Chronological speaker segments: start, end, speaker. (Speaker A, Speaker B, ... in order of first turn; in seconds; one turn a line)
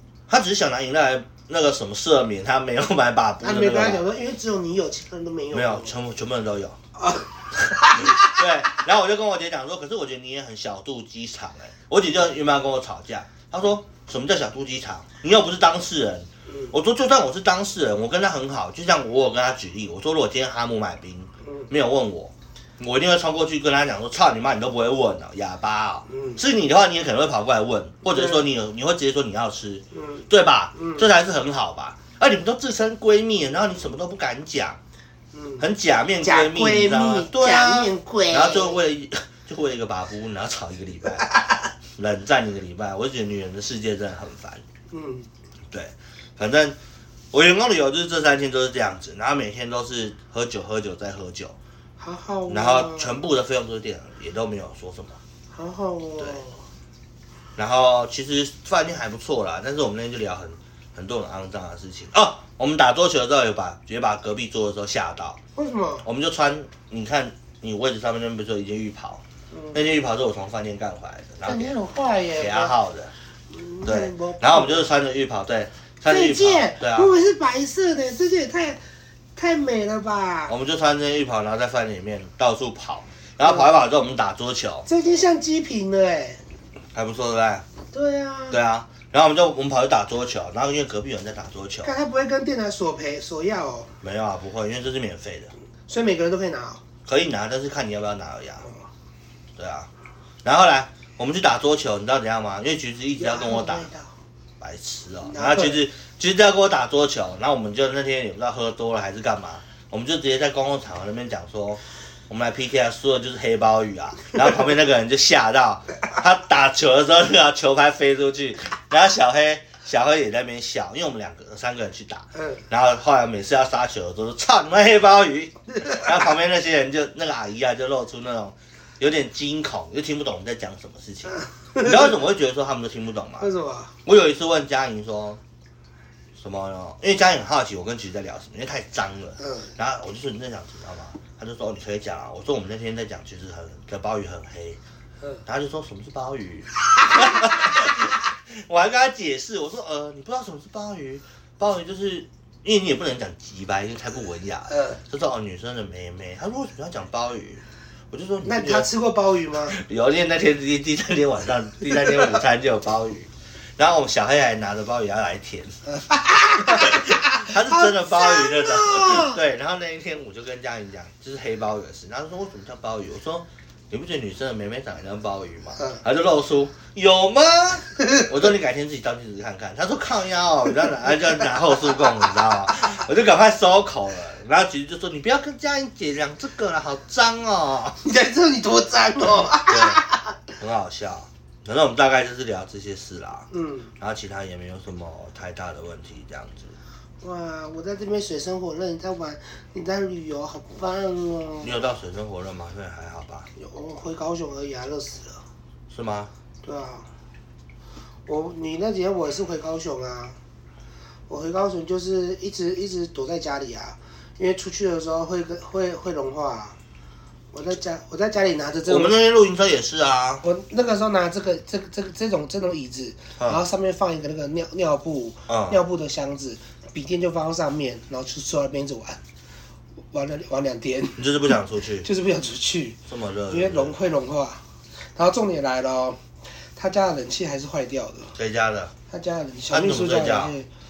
Speaker A: 0.3-4.0
Speaker B: 3.4-5.9
Speaker A: 5.5-6.8
Speaker B: 7.0-8.4
Speaker A: 7.8-34.8
Speaker B: 16.5-16.7
Speaker B: 26.1-26.4
Speaker B: 28.1-28.4
Speaker B: 29.9-31.1
Speaker B: 35.3-35.6
Speaker A: 35.6-41.3
Speaker B: 36.2-38.8
Speaker A: 42.0-44.6
Speaker B: 44.9-45.3
Speaker A: 45.7-46.8
Speaker A: 47.3-51.5
Speaker B: 52.0-53.2
Speaker A: 52.5-55.2
Speaker B: 55.5-56.6
Speaker A: 57.6-65.4
Speaker B: 65.5-66.0
Speaker A: 66.0-71.8
Speaker B: 69.5-69.8
Speaker B: 71.5-72.7
Speaker A: 72.3-73.1
Speaker B: 73.5-74.9
Speaker A: 73.8-77.1
Speaker B: 76.1-78.8
Speaker B: 79.3-80.5
Speaker A: 80.5-84.9
Speaker B: 84.8-86.4
Speaker A: 86.9-87.7
Speaker B: 87.9-88.6
Speaker A: 88.5-91.9
Speaker B: 91.8-93.9
Speaker A: 94.0-95.5
Speaker B: 95.9-96.8
Speaker A: 97.1-98.7
Speaker A: 99.6-99.9
Speaker A: 100.4-103.9
Speaker B: 103.2-104.1
Speaker A: 104.6-133.5
Speaker B: 105.2-105.8
Speaker B: 122.3-122.6
Speaker B: 125.7-126.2
Speaker B: 131.7-132.0
Speaker B: 133.4-133.9
Speaker A: 134.0-135.4
Speaker A: 136.4-144.8
Speaker B: 139.4-139.7
Speaker A: 145.4-158.9
Speaker B: 147.0-147.6
Speaker B: 154.7-155.0
Speaker B: 158.4-159.8
Speaker A: 159.5-165.7
Speaker B: 165.8-169.4
Speaker A: 166.6-188.0
Speaker B: 188.0-190.4
Speaker A: 189.7-190.0
Speaker A: 190.6-196.7
Speaker B: 193.5-193.9
Speaker B: 197.2-201.8
Speaker A: 201.6-203.5
Speaker B: 203.6-205.4
Speaker A: 205.9-206.3
Speaker B: 206.6-207.1
Speaker B: 208.3-210.4
Speaker B: 211.3-216.8
Speaker B: 217.5-219.1
Speaker A: 218.9-220.4
Speaker B: 220.4-229.2
Speaker A: 225.5-225.8
Speaker B: 230.1-233.0
Speaker A: 231.2-232.1
Speaker A: 233.1-233.9
Speaker B: 233.5-234.6
Speaker B: 235.2-236.2
Speaker B: 236.8-238.3
Speaker A: 238.3-238.9
Speaker B: 239.1-240.7
Speaker A: 239.7-240.5